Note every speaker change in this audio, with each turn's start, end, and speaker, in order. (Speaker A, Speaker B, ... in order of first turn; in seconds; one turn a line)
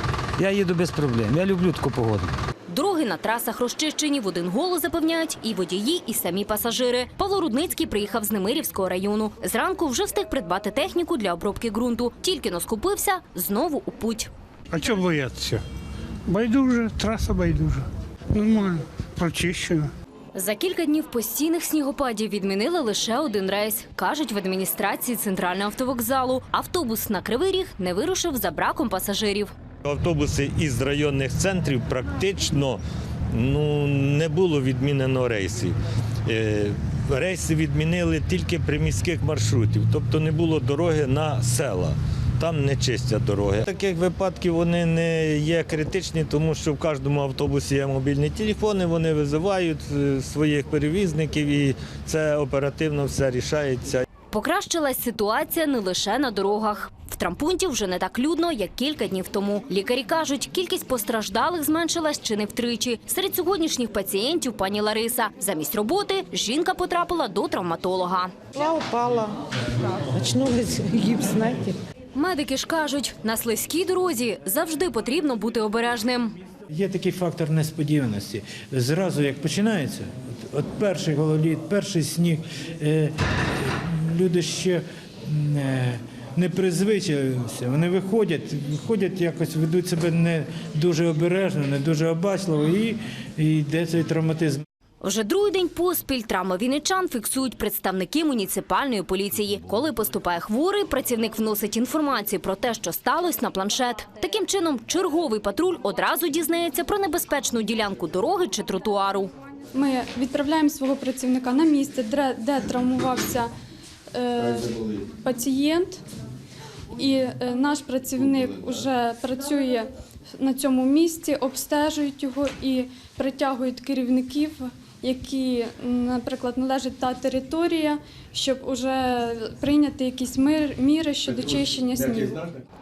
Speaker A: 0.4-2.3
Speaker B: 2.7-14.3
Speaker C: 14.7-15.6
Speaker C: 16.3-19.9
Speaker B: 20.3-29.5
Speaker D: 29.8-32.8
Speaker D: 33.3-54.0
Speaker B: 54.3-68.3
Speaker E: 68.6-69.4
Speaker E: 70.0-71.8
Speaker B: 72.1-76.3
Speaker F: 76.7-94.6
Speaker B: 95.0-109.3
Speaker G: 109.7-113.5
Speaker G: 114.1-116.0
Speaker G: 116.9-132.5